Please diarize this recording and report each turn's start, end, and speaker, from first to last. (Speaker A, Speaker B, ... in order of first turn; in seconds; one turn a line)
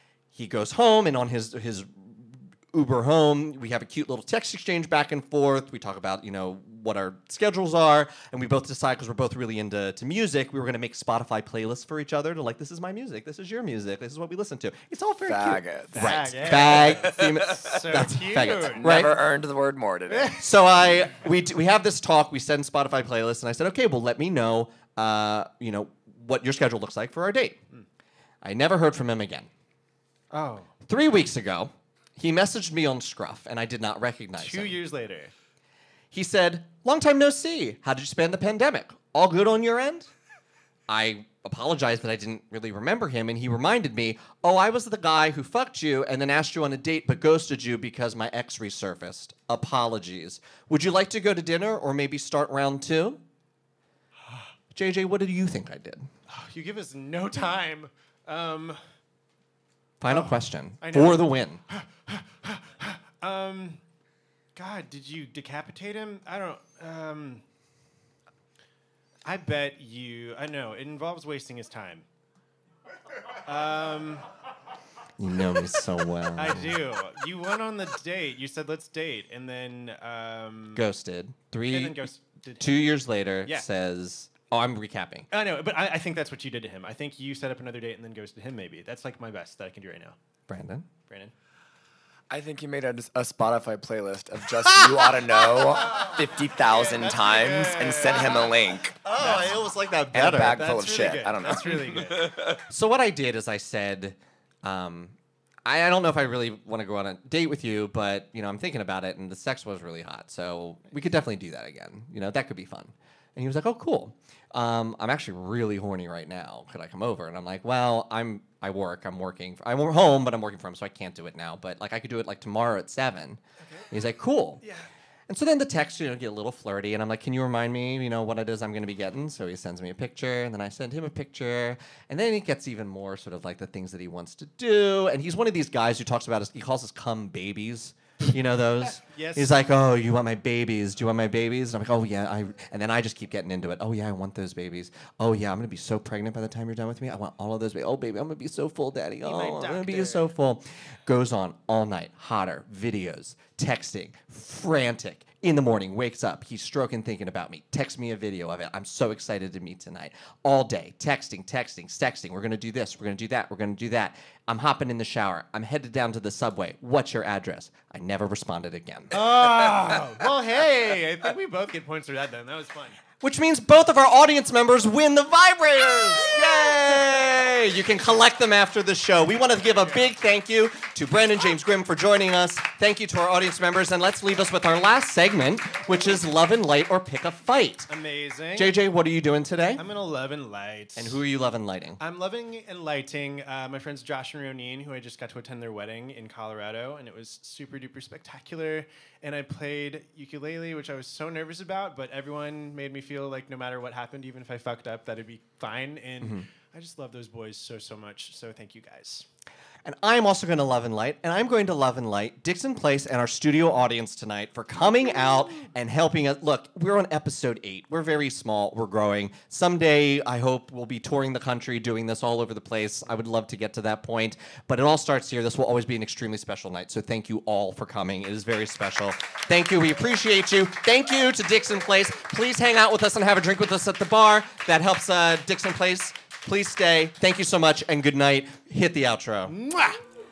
Speaker A: 0.3-19.2
Speaker B: 15.3-17.8
Speaker C: 15.9-18.9
Speaker B: 18.4-20.4
Speaker C: 20.1-20.4
Speaker A: 20.4-27.6
Speaker A: 28.4-29.5
Speaker C: 30.3-30.7
Speaker A: 30.9-34.8
Speaker C: 34.4-35.3
Speaker A: 36.1-40.1
Speaker A: 40.9-53.2
Speaker A: 54.7-56.1
Speaker C: 56.3-58.8
Speaker A: 60.0-61.6
Speaker C: 60.1-63.8
Speaker C: 64.5-67.4
Speaker C: 69.2-72.0
Speaker C: 73.4-74.2
Speaker A: 75.2-76.8
Speaker C: 76.3-80.8
Speaker A: 80.7-82.0
Speaker C: 81.7-82.8
Speaker A: 82.6-85.3
Speaker C: 85.3-90.2
Speaker A: 90.5-90.9
Speaker C: 91.1-91.3
Speaker B: 92.3-99.2
Speaker C: 94.8-98.6
Speaker A: 99.0-100.7
Speaker C: 99.2-99.6
Speaker B: 100.1-102.6
Speaker C: 100.5-102.5
Speaker A: 102.7-124.6
Speaker C: 123.6-123.8
Speaker C: 124.6-124.9
Speaker A: 125.3-169.2
Speaker C: 139.0-139.6
Speaker C: 149.2-150.3
Speaker C: 169.1-173.0
Speaker A: 173.2-187.9
Speaker C: 187.9-188.8
Speaker A: 188.5-189.8
Speaker C: 189.8-191.2
Speaker A: 190.9-192.0
Speaker C: 192.0-209.2
Speaker A: 209.8-239.6
Speaker C: 239.5-240.0